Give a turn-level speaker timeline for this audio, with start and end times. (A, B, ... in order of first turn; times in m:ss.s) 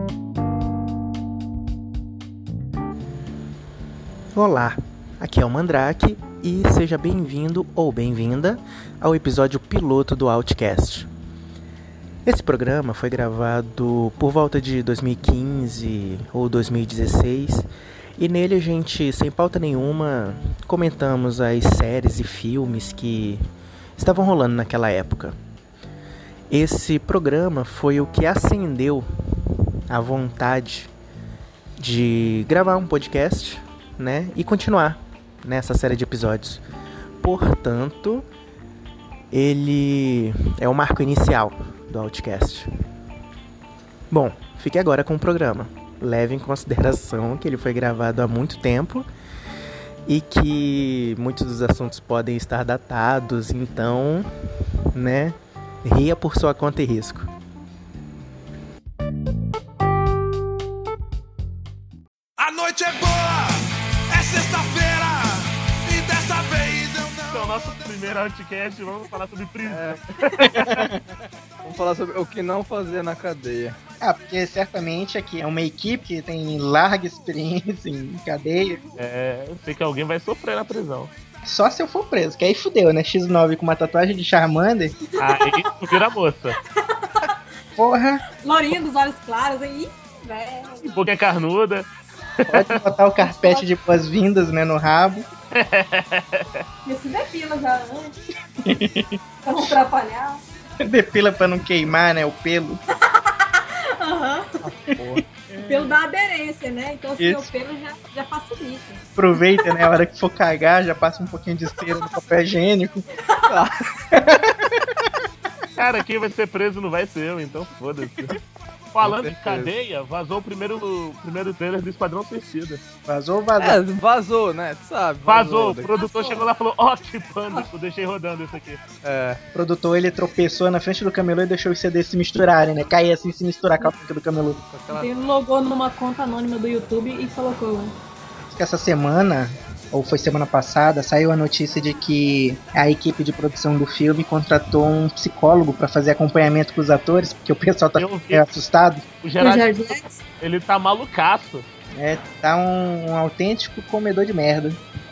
0:04.3-0:11.1 A
0:12.2-0:25.4 A
0:26.5-0:29.1 A
0:29.9-0:30.9 A
0:31.8-0:36.6 A
0:37.2-0:38.3 A
0:39.3-0:42.7 A
0:44.1-0:49.1 A
0:50.0-0:54.3 A
0:54.9-0:57.3 A
1:02.4-1:08.0 B
1:07.3-1:10.0 C
1:09.6-1:10.9 D
1:11.6-1:13.8 D
1:14.0-1:18.8 E
1:18.6-1:18.9 F
1:19.0-1:21.1 C
1:21.4-1:24.9 E
1:25.1-1:26.0 F
1:25.2-1:26.6 C
1:26.5-1:27.3 F
1:27.8-1:28.2 E
1:28.4-1:30.9 F
1:30.8-1:31.9 C
1:32.5-1:32.8 C
1:32.5-1:35.2 E
1:33.2-1:33.7 F
1:35.6-1:36.4 C
1:36.8-1:38.2 F
1:38.7-1:39.2 E
1:39.4-1:40.4 F
1:40.8-1:42.8 E
1:43.2-1:44.6 F
1:44.6-1:45.9 D
1:45.6-1:49.7 F
1:47.2-1:47.5 E
1:49.2-1:53.0 E
1:53.5-1:54.4 D
1:55.8-1:58.4 C
1:58.9-2:02.8 C
1:59.0-1:59.7 D
2:03.0-2:03.8 E
2:03.6-2:05.9 D
2:05.2-2:08.8 C
2:05.9-2:06.5 F
2:09.0-2:09.4 D
2:09.5-2:14.6 E
2:14.7-2:15.1 D
2:14.9-2:17.9 F
2:18.5-2:29.0 E
2:28.0-2:28.5 C
2:29.2-2:31.7 C
2:29.4-2:30.2 F
2:32.0-2:34.8 E